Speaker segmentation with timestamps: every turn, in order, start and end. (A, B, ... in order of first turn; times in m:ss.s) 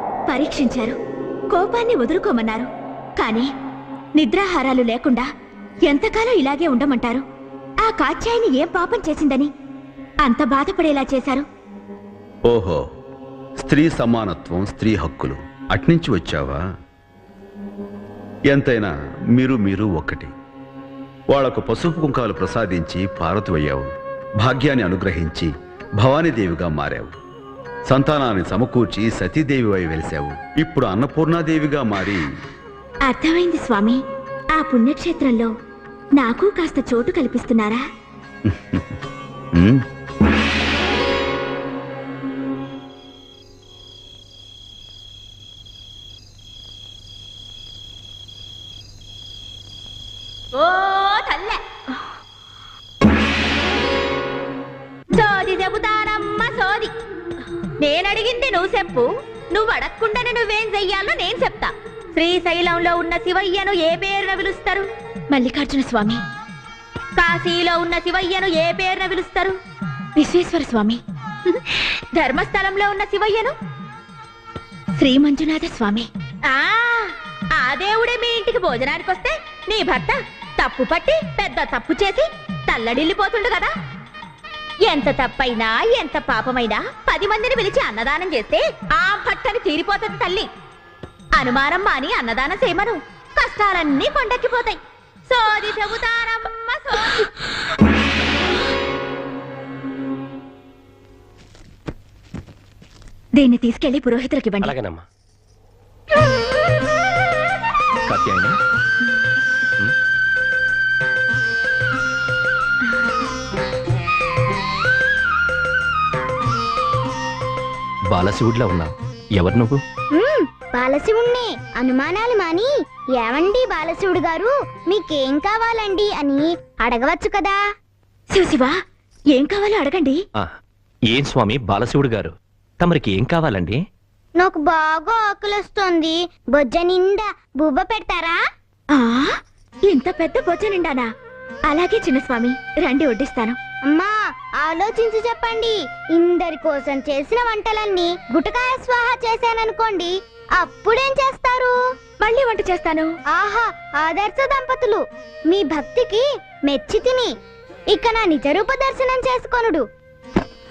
0:00.3-0:01.0 A
0:01.5-0:03.5 A
0:04.2-0:05.3 A
0:05.9-0:07.2 A
0:07.8-0:09.5 A
0:10.2-0:11.5 A
0:12.5-0:12.8 B
0:13.6-0:16.6 B
0:18.5-0:20.3 B
0:21.3-0:23.9 B
0:24.4-0:25.5 B
0:26.0-0:27.1 B
0:27.9-0:32.2 B
0:33.1-0:34.0 A
0:34.6-0:35.5 A
0:36.2-0:37.8 A
0:38.5-0:38.8 B
0:39.6-0:39.8 B
0:50.6-0:51.6 A
0:55.2-0:56.9 A
0:57.8-1:06.2 A
1:07.2-1:09.6 A
1:10.2-1:13.6 A
1:15.0-1:23.7 A
1:24.9-1:30.5 A
1:31.4-1:37.3 A
1:43.4-1:44.8 A
1:44.6-1:45.0 C
1:48.1-1:48.6 C
1:58.1-1:59.8 C
2:00.1-2:07.6 D
2:08.3-2:08.7 A
2:09.3-2:10.2 A
2:11.1-2:13.8 C
2:14.4-2:18.4 D
2:19.0-2:19.3 A
2:19.9-2:21.1 A
2:21.7-2:23.6 A
2:23.9-2:31.7 D
2:32.2-2:33.1 A
2:33.3-2:35.0 D
2:35.5-2:37.3 D
2:37.9-2:39.8 D